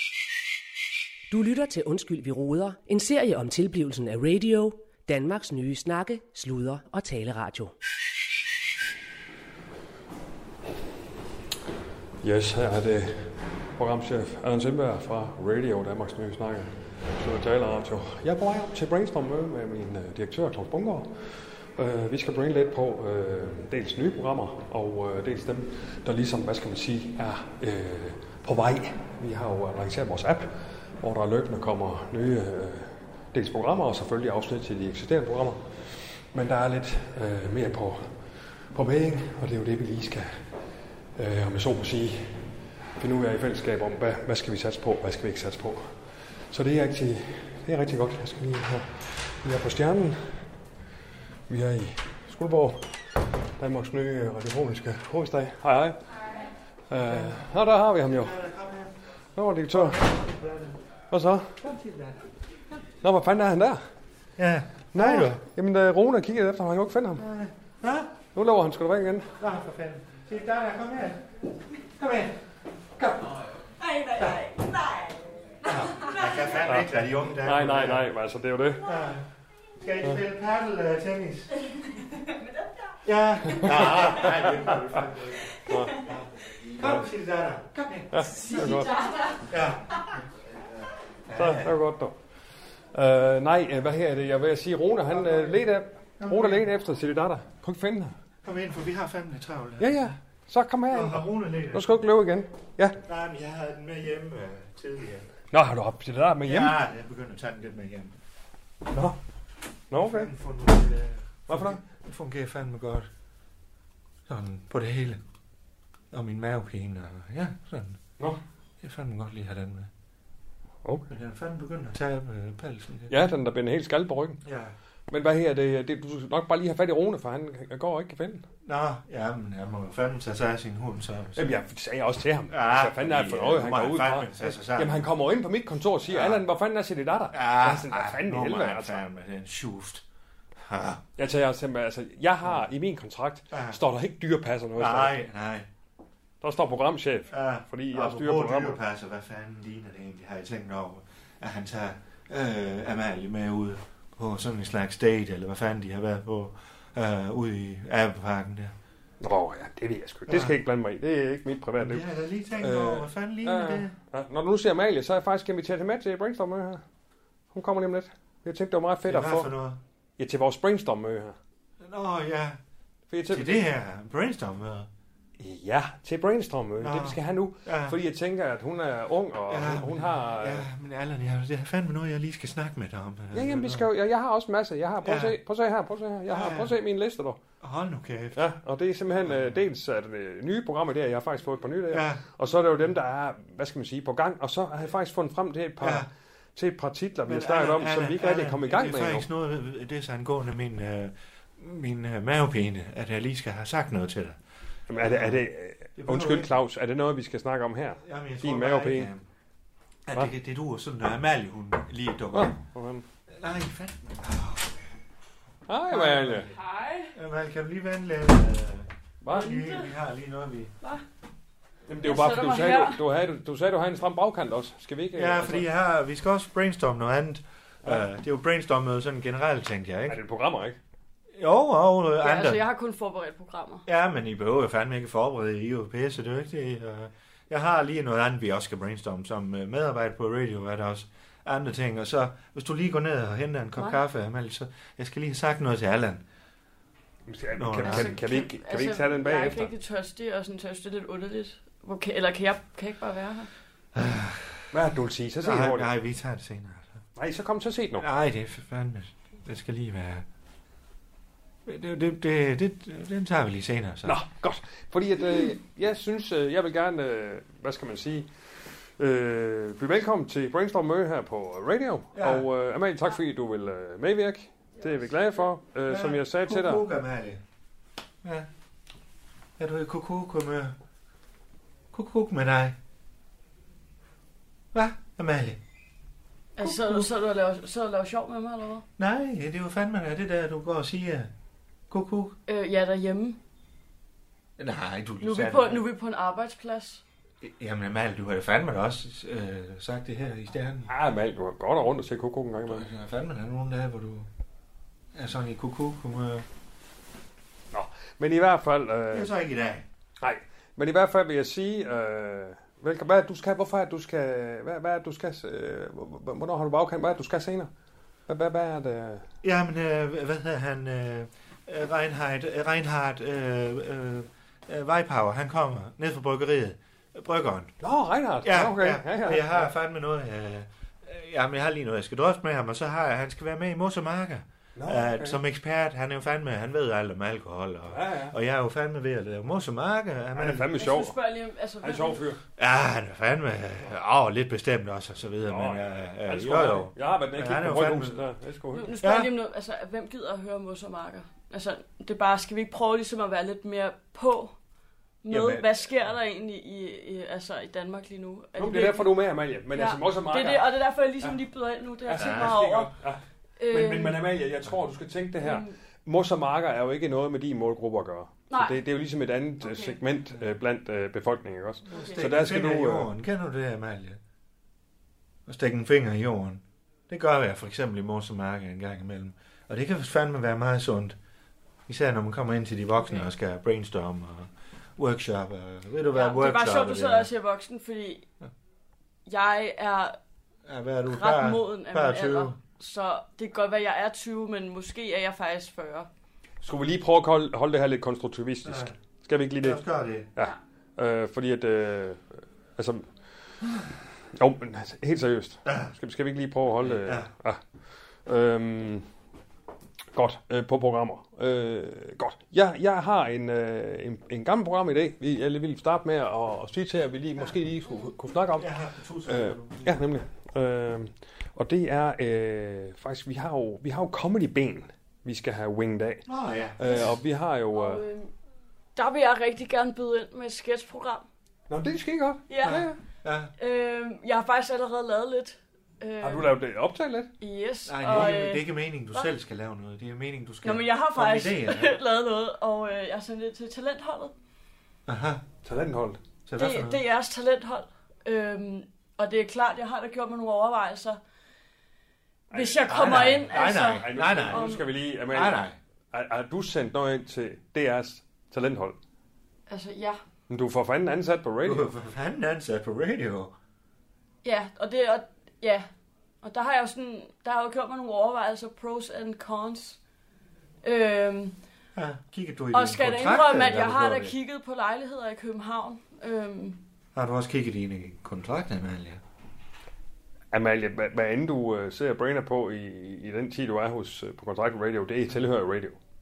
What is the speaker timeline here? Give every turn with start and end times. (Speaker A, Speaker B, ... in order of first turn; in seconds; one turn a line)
Speaker A: 1.3-7.7
Speaker B: 12.2-40.5
Speaker B: 41.2-45.9
Speaker B: 46.5-50.5
Speaker B: 51.5-52.9
Speaker B: 53.6-56.0
Speaker B: 56.9-58.4
Speaker C: 57.1-57.4
Speaker C: 58.1-58.9
Speaker B: 59.4-60.1
Speaker C: 59.7-60.8
Speaker B: 61.1-61.6
Speaker C: 61.6-62.2
Speaker B: 63.0-63.8
Speaker C: 64.4-65.4
Speaker B: 64.9-67.3
Speaker C: 67.2-68.1
Speaker B: 68.3-69.3
Speaker C: 69.4-71.2
Speaker C: 72.0-72.4
Speaker C: 73.0-73.4
Speaker C: 74.2-74.5
Speaker C: 75.7-78.1
Speaker B: 76.6-78.9
Speaker C: 78.9-79.2
Speaker C: 79.8-81.5
Speaker C: 83.0-88.7
Speaker B: 83.5-84.8
Speaker B: 85.6-86.1
Speaker B: 88.1-89.0
Speaker C: 89.5-90.1
Speaker C: 91.3-91.8
Speaker B: 91.3-92.2
Speaker B: 92.9-98.1
Speaker C: 95.1-95.6
Speaker C: 96.2-96.7
Speaker C: 98.4-100.1
Speaker B: 99.8-103.0
Speaker C: 100.9-101.9
Speaker C: 103.0-105.3
Speaker B: 105.5-106.8
Speaker C: 106.5-108.1
Speaker B: 108.9-109.2
Speaker B: 109.9-110.3
Speaker C: 110.0-113.1
Speaker B: 111.5-111.8
Speaker C: 114.3-115.2
Speaker C: 116.1-118.0
Speaker C: 118.8-119.9
Speaker C: 121.1-123.1
Speaker B: 123.1-124.4
Speaker C: 124.5-124.8
Speaker B: 125.1-128.4
Speaker C: 128.7-131.5
Speaker B: 131.4-139.0
Speaker C: 132.5-135.1
Speaker C: 136.1-136.4
Speaker C: 137.3-140.0
Speaker C: 140.6-141.0
Speaker B: 141.2-145.2
Speaker C: 143.5-143.8
Speaker C: 144.8-145.7
Speaker B: 146.4-148.8
Speaker C: 147.3-158.8
Speaker B: 159.2-162.1
Speaker C: 160.3-160.6
Speaker C: 161.8-163.9
Speaker B: 162.6-166.8
Speaker B: 167.5-169.5
Speaker C: 169.1-169.8
Speaker B: 170.2-171.4
Speaker C: 171.8-172.6
Speaker B: 173.1-173.6
Speaker C: 173.3-174.9
Speaker B: 175.4-180.7
Speaker C: 176.8-178.0
Speaker C: 179.5-183.9
Speaker B: 183.3-187.4
Speaker C: 185.0-185.4
Speaker C: 186.3-186.8
Speaker C: 187.6-188.4
Speaker B: 188.3-199.3
Speaker C: 189.2-189.6
Speaker C: 191.9-192.2
Speaker C: 195.8-196.1
Speaker C: 197.3-204.4
Speaker B: 204.9-209.1
Speaker C: 205.0-205.4
Speaker C: 206.0-206.5
Speaker C: 208.0-209.2
Speaker C: 210.1-212.6
Speaker B: 212.3-213.1
Speaker C: 213.4-214.9
Speaker B: 215.7-216.5
Speaker C: 215.9-216.5
Speaker D: 216.5-217.1
Speaker C: 217.1-220.7
Speaker B: 219.2-219.7
Speaker D: 219.3-219.9
Speaker B: 221.9-225.7
Speaker D: 222.0-223.0
Speaker C: 225.2-230.2
Speaker B: 230.1-230.8
Speaker C: 231.3-232.6
Speaker D: 232.2-233.8
Speaker C: 233.9-246.2
Speaker B: 247.3-249.7
Speaker C: 247.5-248.2
Speaker D: 247.8-253.5
Speaker C: 253.9-254.7
Speaker B: 254.7-255.9
Speaker C: 255.4-257.0
Speaker B: 257.2-258.1
Speaker C: 258.0-260.3
Speaker C: 261.7-264.2
Speaker B: 264.1-276.9
Speaker C: 272.1-272.5
Speaker C: 275.9-277.4
Speaker C: 279.6-280.8
Speaker C: 281.9-282.8
Speaker C: 284.7-285.6
Speaker D: 286.6-288.9
Speaker C: 286.6-287.1
Speaker C: 289.0-291.3
Speaker C: 291.9-292.4
Speaker D: 292.5-293.4
Speaker C: 294.6-295.9
Speaker D: 295.2-297.0
Speaker C: 297.4-300.9
Speaker B: 300.9-302.9
Speaker C: 302.7-304.3
Speaker C: 305.1-306.5
Speaker B: 307.7-309.3
Speaker C: 309.1-309.9
Speaker B: 310.2-317.7
Speaker B: 318.3-319.3
Speaker C: 319.4-327.7
Speaker B: 327.8-329.7
Speaker C: 328.4-340.7
Speaker B: 334.8-335.4
Speaker B: 337.9-338.4
Speaker B: 340.4-341.2
Speaker D: 340.8-342.2
Speaker B: 341.8-342.4
Speaker C: 342.6-348.2
Speaker B: 345.5-348.9
Speaker D: 348.8-354.6
Speaker C: 349.0-349.3
Speaker D: 355.2-359.1
Speaker C: 355.3-355.8
Speaker B: 358.6-361.4
Speaker D: 359.7-362.9
Speaker B: 362.1-363.2
Speaker C: 362.2-362.6
Speaker D: 363.6-364.2
Speaker B: 363.7-373.1
Speaker D: 365.4-365.7
Speaker D: 368.5-368.8
Speaker D: 369.6-370.0
Speaker D: 371.9-372.2
Speaker C: 371.9-374.2
Speaker C: 375.5-381.2
Speaker C: 381.9-387.3
Speaker D: 386.1-388.2
Speaker D: 389.3-390.2
Speaker C: 390.7-392.6
Speaker D: 391.1-396.1
Speaker B: 396.6-399.8
Speaker C: 398.6-398.9
Speaker C: 399.6-400.3
Speaker B: 400.4-403.1
Speaker B: 404.3-407.6
Speaker C: 405.7-405.9
Speaker C: 406.8-407.3
Speaker B: 408.2-409.1
Speaker B: 410.1-426.2
Speaker C: 418.6-420.0
Speaker C: 426.3-427.1
Speaker B: 426.8-428.0
Speaker D: 427.7-428.3
Speaker D: 429.0-431.3
Speaker B: 431.7-433.0
Speaker D: 432.5-432.9
Speaker C: 432.6-433.5
Speaker D: 433.6-436.5
Speaker B: 436.2-437.3
Speaker D: 437.4-439.3
Speaker C: 437.9-442.0
Speaker D: 440.6-444.3
Speaker C: 445.1-445.4
Speaker B: 445.6-446.2
Speaker C: 446.5-447.0
Speaker D: 446.6-451.2
Speaker B: 452.5-459.0
Speaker D: 452.5-454.8
Speaker C: 452.9-455.8
Speaker D: 459.7-460.2
Speaker B: 460.5-461.9
Speaker C: 461.6-463.5
Speaker D: 464.4-465.9
Speaker D: 466.4-470.0
Speaker D: 470.8-471.6
Speaker C: 472.0-474.4
Speaker D: 472.7-476.8
Speaker C: 477.1-479.2
Speaker B: 480.5-486.0